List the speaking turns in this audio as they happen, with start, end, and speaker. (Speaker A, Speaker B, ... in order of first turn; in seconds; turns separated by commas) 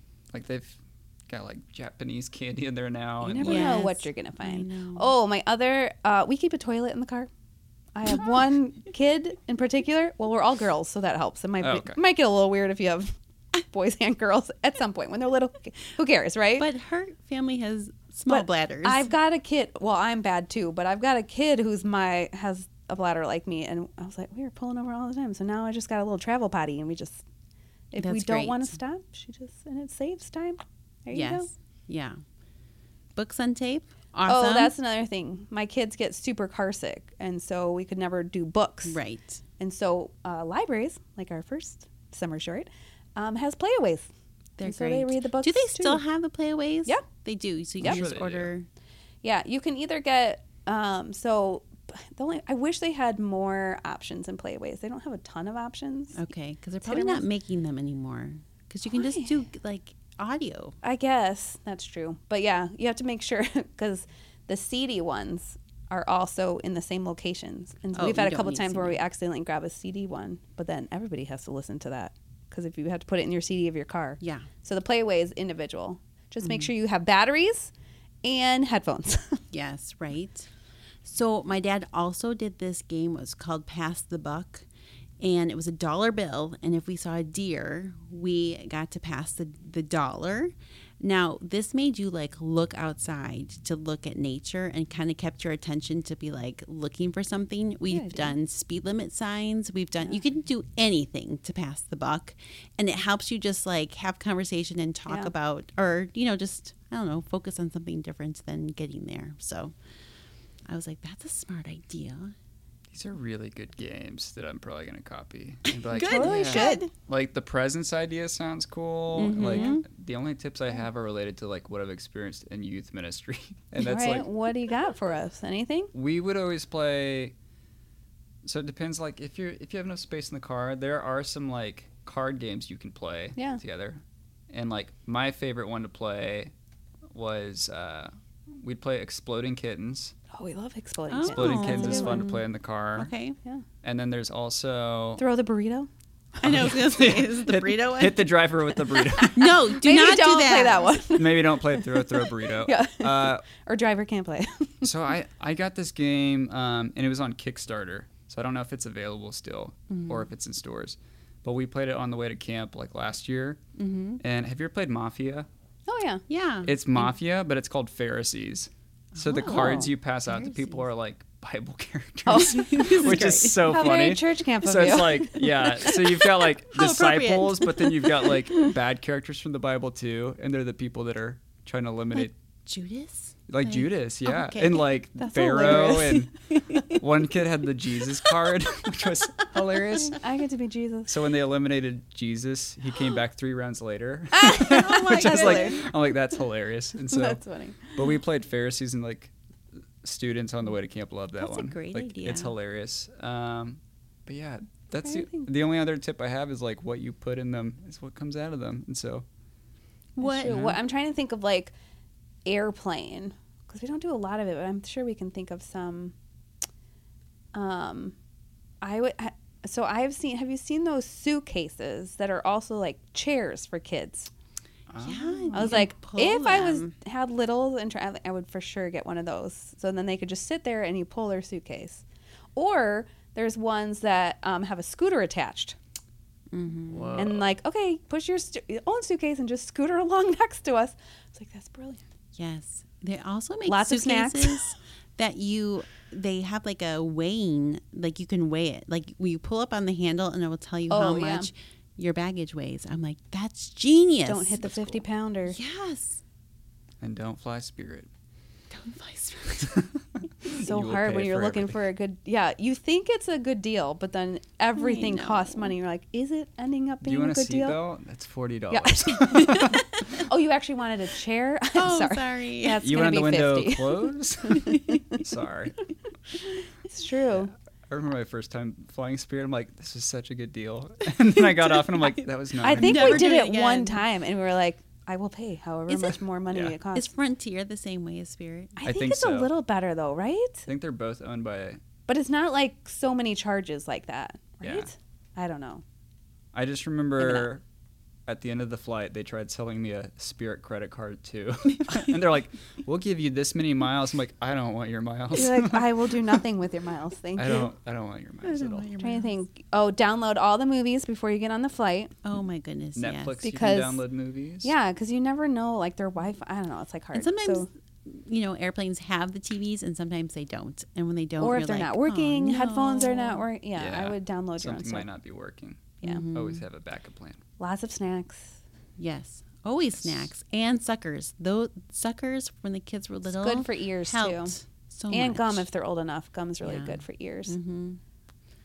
Speaker A: 0.3-0.8, Speaker A: 1.3-3.9, Speaker B: 3.2-7.3, Speaker C: 3.2-5.1, Speaker B: 7.9-16.7, Speaker A: 11.6-12.0, Speaker C: 16.6-19.1, Speaker B: 18.3-27.2, Speaker B: 27.9-31.5, Speaker C: 28.0-28.7, Speaker C: 31.1-32.2, Speaker C: 33.1-34.7, Speaker B: 34.2-39.0, Speaker C: 38.9-39.4, Speaker B: 39.6-44.1, Speaker C: 44.6-48.7, Speaker B: 44.6-46.0, Speaker A: 47.8-48.5, Speaker B: 49.2-56.2, Speaker C: 56.1-60.8, Speaker B: 56.8-57.2, Speaker B: 58.9-59.4, Speaker B: 60.8-77.7, Speaker C: 67.9-69.0, Speaker C: 74.2-74.5, Speaker C: 76.4-76.7, Speaker B: 78.2-79.4, Speaker C: 79.5-80.5, Speaker C: 81.0-84.7, Speaker C: 85.2-109.7, Speaker B: 97.9-98.4, Speaker B: 105.1-105.3, Speaker C: 110.7-112.3, Speaker A: 112.9-124.3, Speaker C: 115.7-116.9, Speaker B: 116.0-116.8, Speaker C: 119.1-119.8, Speaker B: 119.4-119.8, Speaker B: 123.8-125.9, Speaker A: 125.9-127.3, Speaker A: 128.4-136.5, Speaker B: 133.3-133.6, Speaker A: 137.1-140.1, Speaker B: 140.3-142.3, Speaker C: 141.1-143.4, Speaker A: 141.2-143.1, Speaker A: 143.8-145.2, Speaker B: 145.2-145.9, Speaker A: 146.4-149.7, Speaker C: 146.4-148.3, Speaker C: 149.2-150.9, Speaker B: 149.2-154.9, Speaker A: 151.1-153.4, Speaker A: 154.8-163.6, Speaker C: 159.9-160.3, Speaker C: 163.8-164.2, Speaker A: 164.2-165.5, Speaker B: 165.9-166.2, Speaker C: 166.3-166.7, Speaker A: 166.6-182.3, Speaker C: 169.2-170.9, Speaker B: 169.4-169.8, Speaker B: 172.3-173.1, Speaker C: 172.3-173.9, Speaker B: 173.7-176.1, Speaker C: 176.7-178.1, Speaker C: 182.1-187.0, Speaker A: 183.5-190.2, Speaker B: 185.2-186.1, Speaker B: 189.9-191.1, Speaker A: 191.1-199.3, Speaker B: 194.3-195.8, Speaker C: 194.7-195.8, Speaker B: 197.1-198.2, Speaker A: 200.0-209.2, Speaker C: 201.4-202.6, Speaker B: 205.0-205.5, Speaker C: 210.2-210.6, Speaker B: 210.2-211.7, Speaker A: 210.4-210.8, Speaker B: 212.4-216.2, Speaker B: 217.5-218.2, Speaker B: 218.8-224.3, Speaker A: 224.9-225.9, Speaker C: 225.0-226.9, Speaker B: 225.5-232.0, Speaker B: 232.6-235.8, Speaker C: 236.5-237.1, Speaker A: 236.9-237.5, Speaker B: 237.1-242.1, Speaker C: 242.3-256.2, Speaker B: 243.7-244.7, Speaker B: 250.9-251.5, Speaker B: 254.2-255.6, Speaker A: 257.0-258.1, Speaker C: 258.7-259.7, Speaker A: 259.7-261.8, Speaker B: 260.5-267.8, Speaker C: 264.8-265.8, Speaker A: 267.0-269.8, Speaker B: 268.7-275.2, Speaker C: 271.7-272.8, Speaker A: 272.8-275.8, Speaker B: 276.8-277.5, Speaker A: 277.3-283.3, Speaker B: 282.6-287.1, Speaker C: 282.7-284.1, Speaker A: 285.9-286.8, Speaker C: 286.9-288.8, Speaker B: 288.8-290.7, Speaker A: 288.8-289.5, Speaker A: 290.7-291.8, Speaker B: 292.1-295.8, Speaker A: 294.6-294.9, Speaker A: 296.5-297.6, Speaker B: 297.2-297.5, Speaker A: 298.3-306.4, Speaker B: 305.3-307.7, Speaker A: 307.4-308.9, Speaker C: 308.4-309.4, Speaker B: 309.0-312.1, Speaker C: 312.2-313.4, Speaker A: 312.9-314.7, Speaker B: 313.4-314.1, Speaker B: 314.6-317.7, Speaker C: 317.1-323.4, Speaker B: 321.4-325.1, Speaker A: 323.7-327.4, Speaker C: 326.0-326.6, Speaker B: 327.6-328.6, Speaker C: 329.0-335.7, Speaker A: 329.9-330.3, Speaker B: 333.3-334.6, Speaker B: 335.1-337.6, Speaker C: 336.6-338.0